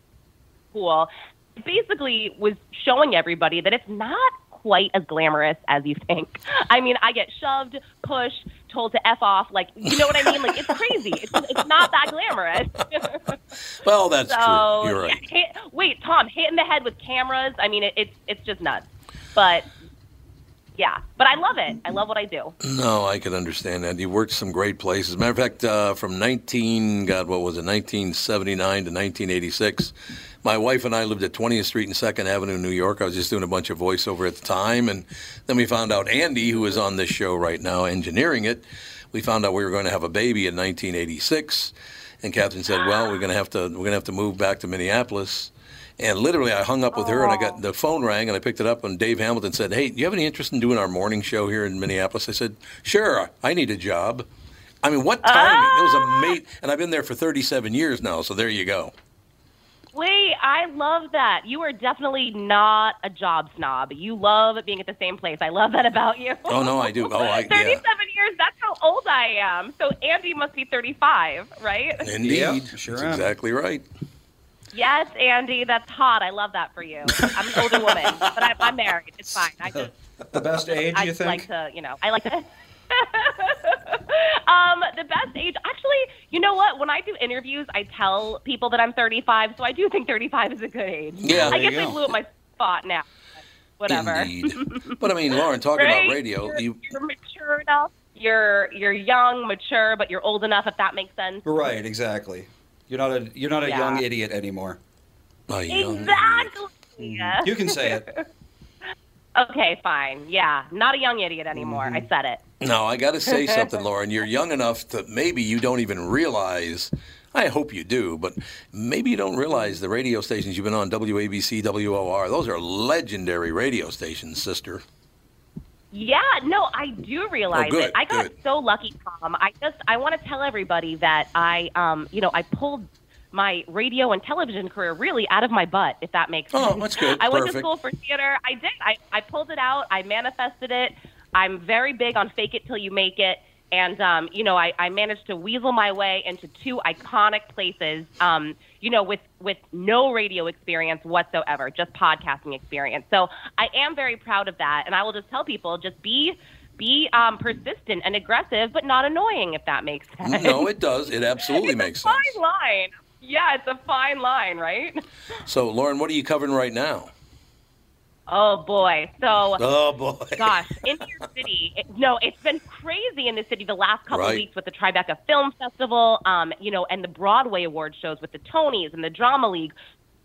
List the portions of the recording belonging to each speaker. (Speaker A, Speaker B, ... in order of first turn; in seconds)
Speaker A: 0.7-13.3, 14.3-19.7, 20.8-22.6, 42.7-43.1, 46.9-47.6, 55.2-56.4, 59.9-72.1, 74.7-79.9, 80.8-93.1, 93.8-95.0, 95.8-101.5, 103.6-104.0, 105.7-108.2, 109.4-112.4, 113.3-113.7, 125.9-160.7, 161.4-165.0, 168.3-169.6, 170.4-179.7
Speaker B: 10.0-10.7, 13.8-15.2, 22.6-54.3, 54.8-58.9, 66.5-67.8, 72.0-73.8, 77.1-78.5, 91.2-91.6, 93.9-96.8, 105.5-106.5, 112.6-124.8, 127.5-128.3, 136.5-137.7, 160.2-162.4, 165.4-167.1, 169.6-170.9, 174.1-174.4
Speaker C: 72.2-73.3, 79.7-81.5, 91.3-92.0, 101.5-104.8, 107.0-108.1, 111.5-112.0